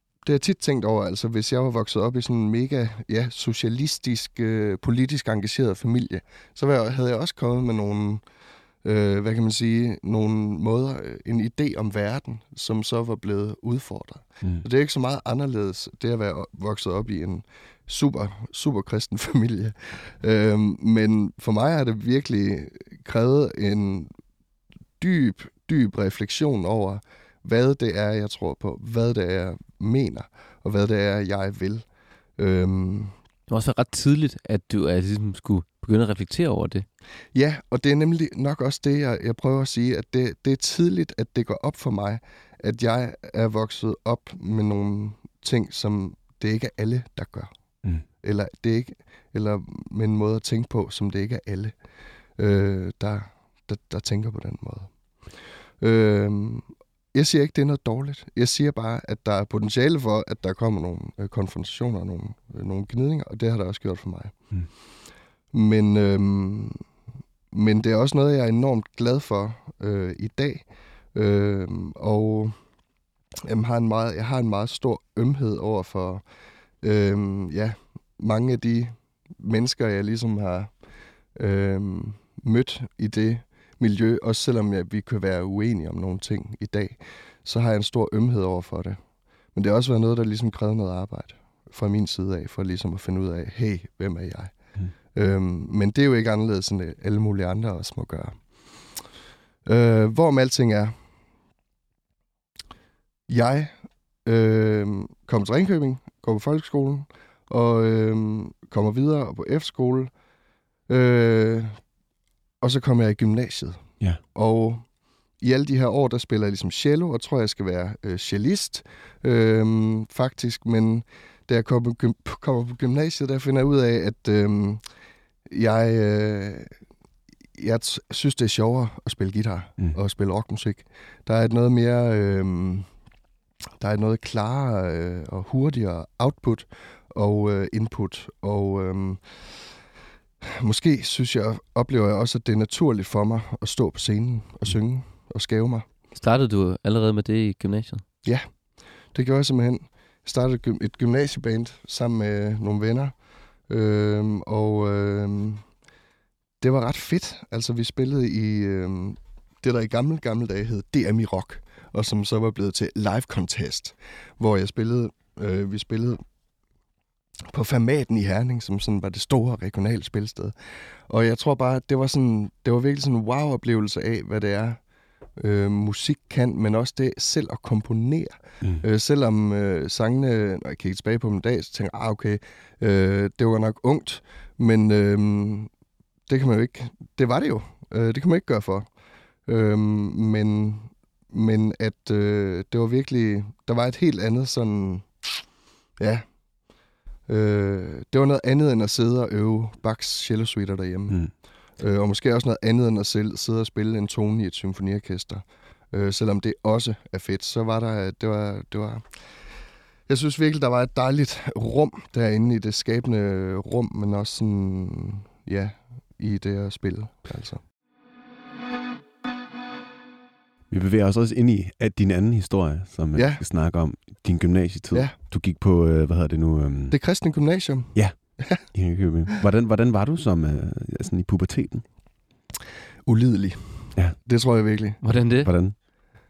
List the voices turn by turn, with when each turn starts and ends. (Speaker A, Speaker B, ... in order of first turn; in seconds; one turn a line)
Speaker A: 0.2-8.2
Speaker A: 8.8-24.1
Speaker A: 25.0-31.9
Speaker A: 32.4-33.1
Speaker B: 33.5-36.9
Speaker A: 37.3-47.5
Speaker A: 48.2-51.8
Speaker A: 52.4-64.4
Speaker A: 65.5-66.8
Speaker A: 67.5-72.6
Speaker A: 73.5-76.2
Speaker A: 76.8-80.7
Speaker A: 81.3-89.0
Speaker A: 89.5-94.5
Speaker A: 95.1-99.0
Speaker A: 99.6-101.0
Speaker A: 103.3-110.1
Speaker A: 110.9-111.8
Speaker A: 112.6-114.8
Speaker A: 115.4-124.8
Speaker A: 125.5-126.7
Speaker A: 127.5-132.9
Speaker A: 133.8-139.7
Speaker A: 140.4-145.8
Speaker B: 146.1-148.0
Speaker A: 149.1-153.1
Speaker A: 153.7-155.6
Speaker A: 156.6-166.2
Speaker A: 167.5-174.8
Speaker A: 175.4-185.7
Speaker A: 186.3-188.9
Speaker A: 189.5-195.4
Speaker A: 196.0-196.2
Speaker A: 197.3-201.2
Speaker A: 201.8-209.3
Speaker A: 210.1-217.6
Speaker C: 220.7-226.9
Speaker A: 223.1-223.4
Speaker A: 226.9-228.6
Speaker C: 227.9-231.8
Speaker A: 233.0-235.0
Speaker B: 235.0-235.5
Speaker C: 235.4-235.7